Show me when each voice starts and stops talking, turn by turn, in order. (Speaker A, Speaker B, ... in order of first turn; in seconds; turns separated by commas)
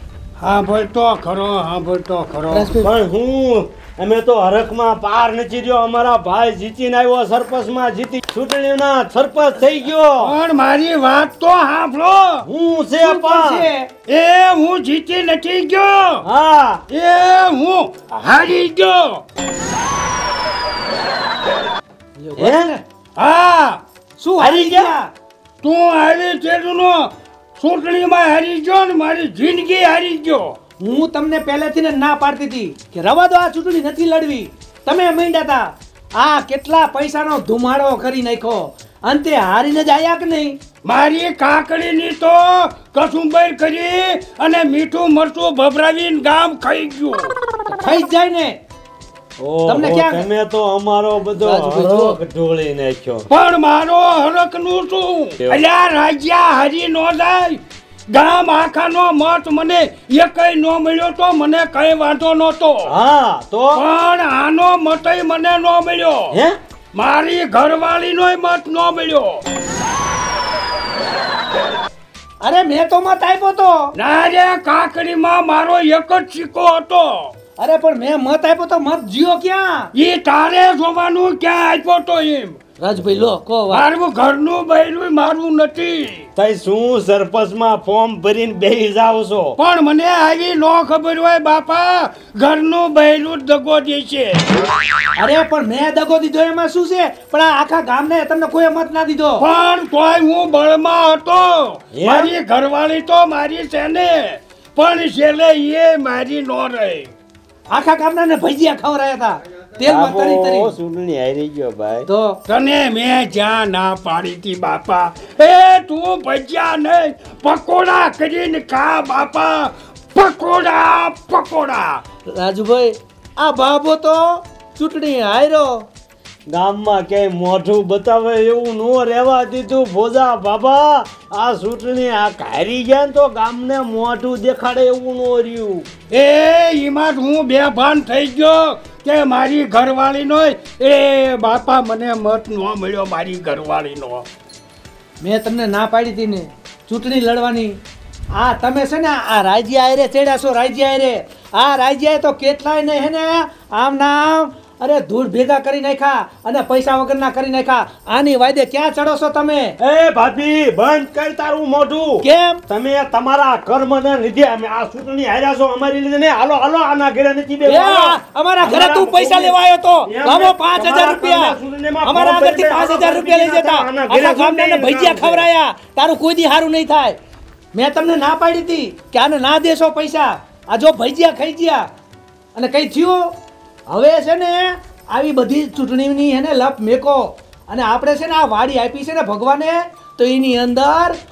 Speaker A: 0.4-2.7, Speaker B: 2.5-2.9, Speaker C: 2.8-10.3, Speaker A: 10.2-12.4, Speaker C: 12.4-13.7, Speaker B: 13.0-13.9, Speaker A: 14.1-16.2, Speaker C: 16.2-16.8, Speaker A: 16.9-19.2, Speaker B: 22.2-22.8, Speaker C: 22.4-22.7, Speaker A: 23.2-23.8, Speaker B: 24.2-25.1, Speaker C: 24.4-24.9, Speaker A: 25.6-30.5, Speaker B: 30.8-40.6, Speaker A: 40.8-47.3, Speaker B: 47.7-48.6, Speaker C: 49.4-53.3, Speaker B: 49.7-50.3, Speaker B: 51.4-52.2, Speaker A: 53.3-62.9, Speaker C: 62.8-63.8, Speaker A: 63.7-66.3, Speaker A: 66.9-69.4, Speaker B: 72.4-73.9, Speaker A: 73.9-77.3, Speaker B: 77.6-79.9, Speaker A: 79.9-82.6, Speaker B: 82.8-83.8, Speaker A: 83.7-86.3, Speaker C: 86.3-89.6, Speaker A: 89.6-94.5, Speaker B: 95.2-99.4, Speaker A: 99.4-107.1, Speaker C: 101.9-102.3, Speaker B: 107.7-110.7, Speaker C: 109.8-112.1, Speaker B: 112.1-112.4, Speaker A: 112.5-122.0, Speaker B: 122.3-125.8, Speaker C: 126.5-135.9, Speaker A: 136.1-144.3, Speaker B: 145.2-147.8, Speaker B: 148.3-159.8, Speaker C: 159.8-169.5, Speaker B: 162.2-162.6, Speaker B: 167.6-177.2, Speaker C: 170.1-175.4, Speaker B: 177.7-181.9, Speaker B: 182.5-183.3, Speaker B: 183.9-191.2